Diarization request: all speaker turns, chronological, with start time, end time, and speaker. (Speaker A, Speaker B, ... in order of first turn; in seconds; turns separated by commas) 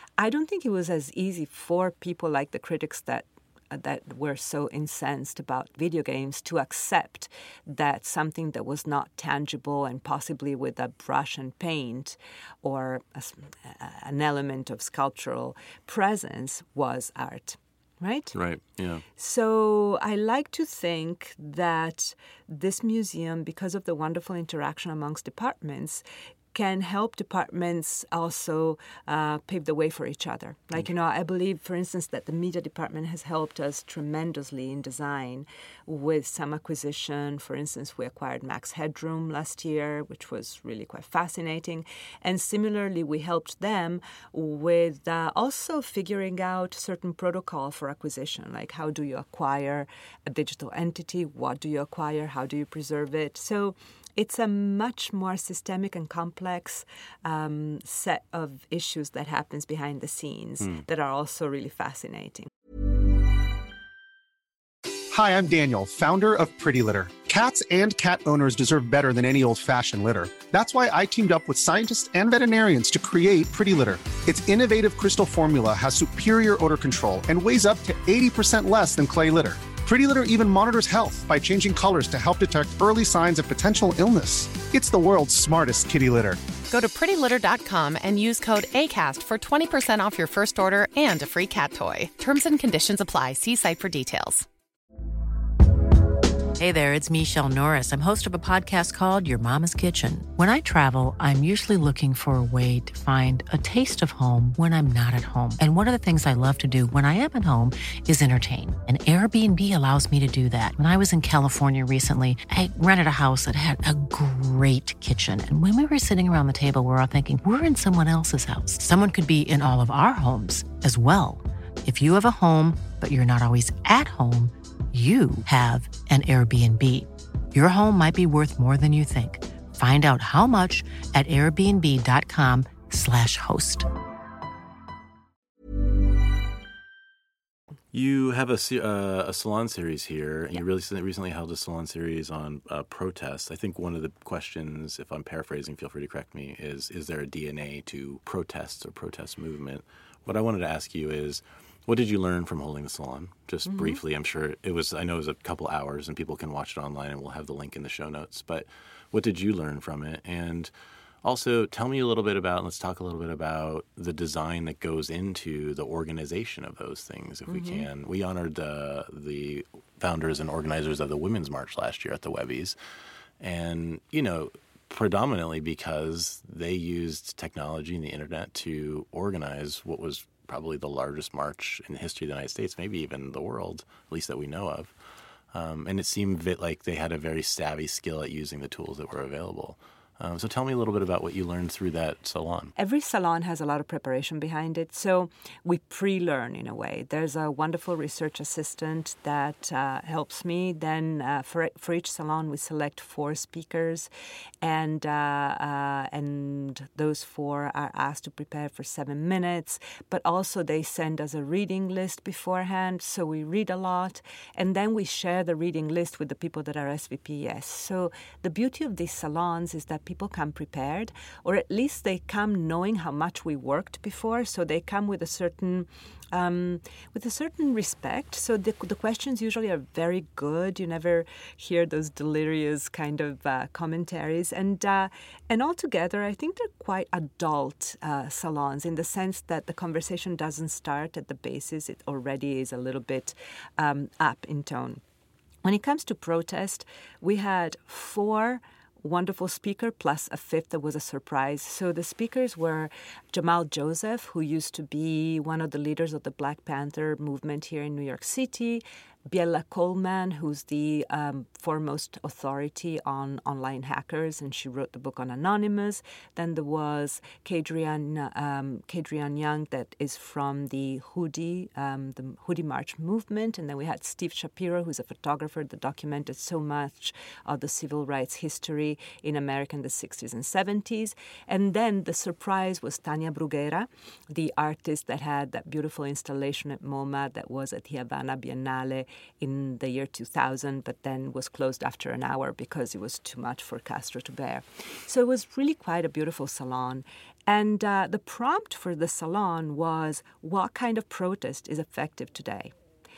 Speaker A: 0.2-18.3, Speaker B: 18.3-19.0, Speaker A: 19.2-26.0, Speaker A: 26.5-62.5, Speaker C: 65.1-86.4, Speaker D: 86.7-94.5, Speaker E: 96.5-133.9, Speaker B: 137.9-160.7, Speaker A: 153.7-154.0, Speaker B: 161.2-172.8, Speaker A: 167.5-167.8, Speaker B: 173.4-184.9, Speaker B: 185.5-192.7, Speaker A: 192.8-204.1, Speaker A: 204.6-245.0, Speaker A: 245.6-302.7